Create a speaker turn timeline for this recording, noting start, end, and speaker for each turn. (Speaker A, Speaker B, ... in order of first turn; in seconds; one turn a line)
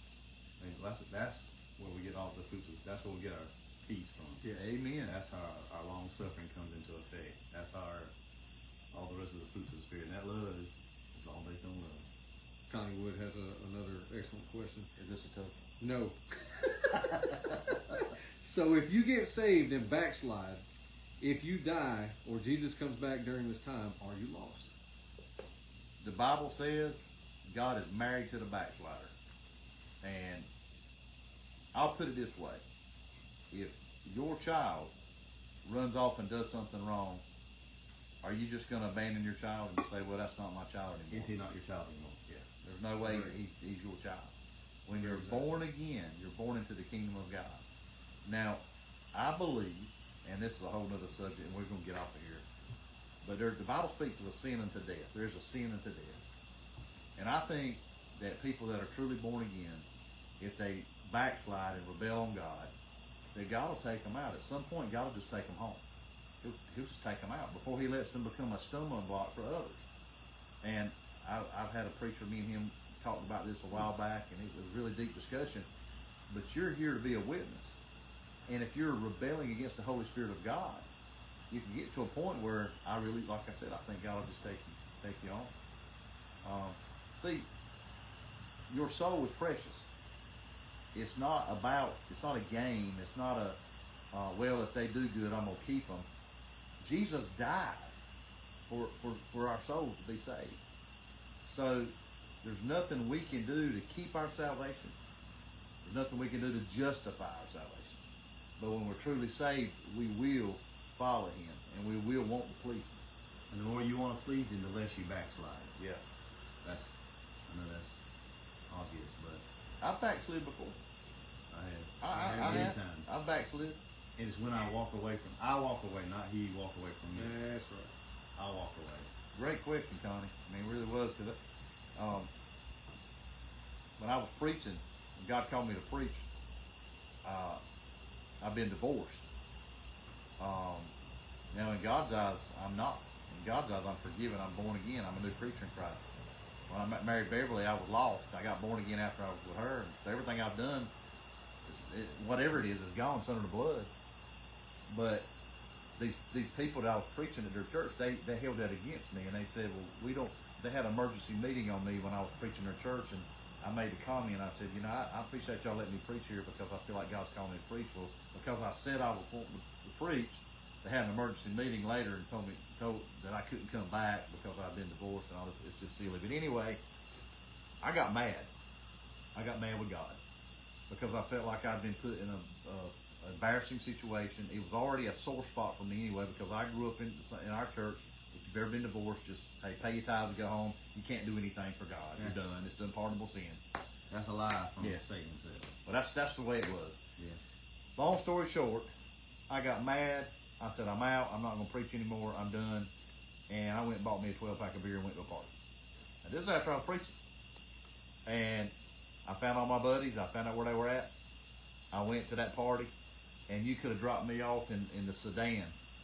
Speaker A: 0.6-8.1
Speaker B: 4.4-4.8
Speaker C: 4.5-5.2
Speaker A: 8.9-12.1
Speaker B: 12.7-14.9
Speaker C: 15.0-15.6
Speaker B: 15.8-20.6
Speaker B: 21.2-24.7
Speaker C: 26.0-29.1
Speaker C: 30.0-30.5
Speaker C: 31.7-32.6
Speaker C: 33.5-34.9
Speaker C: 35.6-37.2
Speaker C: 38.2-41.3
Speaker A: 41.1-42.8
Speaker C: 42.6-44.4
Speaker B: 43.0-43.3
Speaker C: 44.9-47.6
Speaker A: 45.0-45.4
Speaker C: 48.2-48.6
Speaker C: 49.1-52.5
Speaker C: 53.2-56.2
Speaker C: 57.2-59.9
Speaker C: 60.4-62.7
Speaker C: 63.3-65.8
Speaker C: 66.4-69.8
Speaker C: 70.6-75.7
Speaker C: 76.3-77.8
Speaker C: 78.5-80.9
Speaker C: 81.5-85.5
Speaker C: 86.4-87.5
Speaker C: 88.7-90.0
Speaker C: 90.9-93.6
Speaker C: 94.1-96.1
Speaker C: 96.8-97.9
Speaker C: 98.7-100.6
Speaker C: 101.5-105.0
Speaker C: 105.8-108.0
Speaker C: 108.6-113.0
Speaker A: 113.5-115.7
Speaker C: 115.8-116.0
Speaker A: 116.6-117.0
Speaker A: 117.5-118.0
Speaker A: 118.7-119.4
Speaker C: 119.8-120.8
Speaker A: 121.5-123.1
Speaker C: 122.0-123.8
Speaker B: 122.1-122.7
Speaker A: 124.2-127.4
Speaker B: 127.1-127.9
Speaker A: 128.4-129.1
Speaker C: 129.3-131.4
Speaker C: 131.9-132.3
Speaker C: 134.0-136.3
Speaker C: 137.2-137.6
Speaker C: 138.4-139.3
Speaker C: 140.4-140.9
Speaker C: 141.5-146.1
Speaker C: 146.7-150.9
Speaker C: 151.7-153.9
Speaker C: 154.9-155.3
Speaker C: 156.0-176.8
Speaker C: 177.8-178.5
Speaker C: 179.3-180.2
Speaker C: 180.9-193.6
Speaker A: 192.2-192.6
Speaker A: 194.1-195.7
Speaker C: 195.8-197.1
Speaker C: 198.0-198.9
Speaker C: 199.5-202.9
Speaker C: 203.5-205.5
Speaker C: 206.2-207.2
Speaker C: 208.3-208.7
Speaker C: 209.2-211.1
Speaker C: 211.9-212.9
Speaker C: 213.5-215.8